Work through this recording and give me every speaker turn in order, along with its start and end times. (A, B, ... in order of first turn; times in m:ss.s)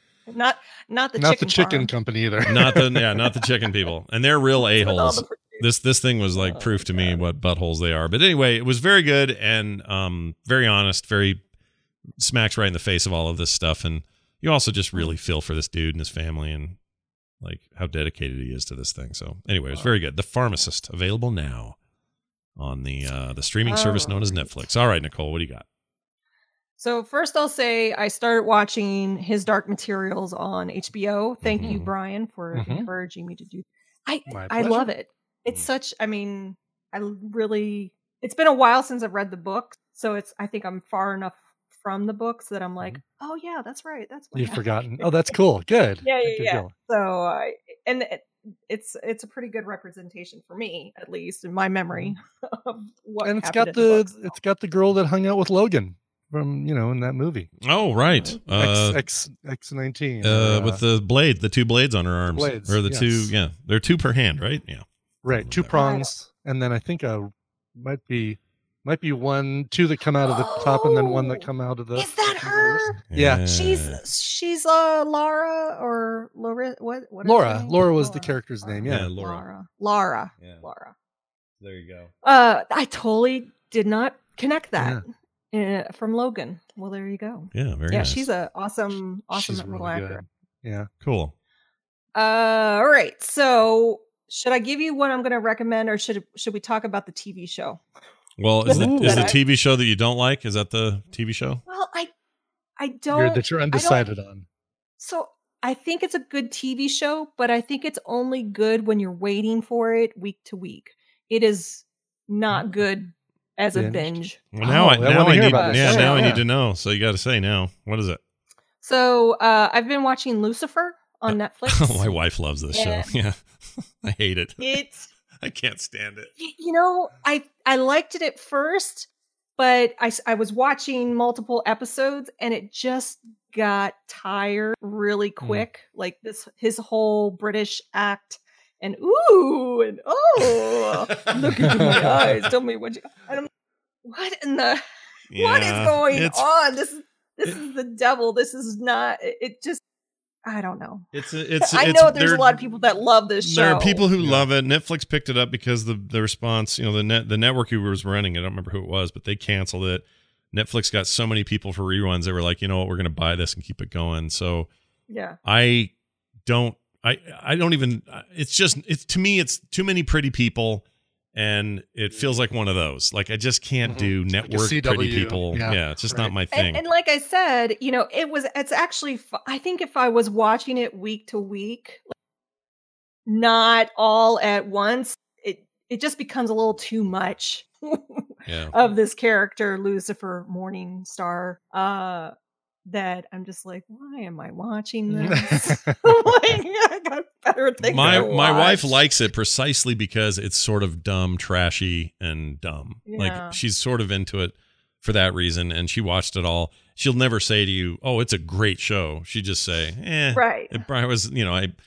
0:00.3-0:01.9 A
0:01.2-0:03.0 B
0:02.5-0:11.4 C
0:04.6-0:05.7 A
0:06.3-0:07.2 A
0:12.2-0:16.8 C
0:17.4-0:21.8 C
0:22.6-0:25.6 C
0:23.6-0:24.5 A
0:26.8-0:45.3 A
0:31.4-0:31.9 C
0:32.5-0:32.9 B
0:34.3-0:34.9 B
0:44.3-0:46.7 B
0:46.0-0:54.3 A
0:53.2-0:57.5 B
0:57.6-0:59.0 C
0:58.5-1:00.8 B
1:00.2-1:05.8 C
1:02.3-1:03.3 B
1:05.2-1:13.5 B
1:05.7-1:06.1 A
1:10.2-1:20.9 A
1:13.1-1:14.0 C
1:17.2-1:19.1 B
1:18.9-1:19.4 C
1:21.6-1:22.1 C
1:22.2-1:30.2 A
1:24.8-1:25.0 B
1:27.5-1:28.3 C
1:29.3-1:30.9 B
1:31.0-1:31.3 C
1:32.1-1:37.8 A
1:38.4-1:41.6 C
1:38.6-1:39.3 B
1:38.6-1:39.4 A
1:41.7-1:42.1 A
1:42.8-1:44.0 A
1:43.1-1:44.4 B
1:45.0-1:54.4 A
1:53.7-1:56.4 B
1:54.5-1:58.2 C
1:55.5-1:56.4 A
1:58.8-2:02.1 A
2:01.3-2:04.8 C
2:02.7-2:03.1 A
2:04.6-2:05.1 A
2:05.4-2:06.3 C
2:06.4-2:23.5 A
2:20.9-2:22.4 C
2:21.5-2:22.3 B
2:24.0-2:24.8 A
2:25.3-2:26.4 C
2:25.3-2:29.8 A
2:30.4-2:31.1 A
2:31.1-2:32.5 C
2:31.6-2:34.0 A
2:33.4-2:44.7 C
2:34.2-2:34.4 B
2:45.1-2:45.4 A
2:45.4-2:45.9 C
2:46.4-2:56.8 C
2:53.8-2:56.4 B
2:56.5-3:02.1 A
3:03.2-3:12.3 A
3:08.5-3:09.0 C
3:12.9-3:19.0 A
3:15.1-3:16.0 B
3:17.8-3:31.7 C
3:23.1-3:23.6 A
3:30.3-3:30.8 A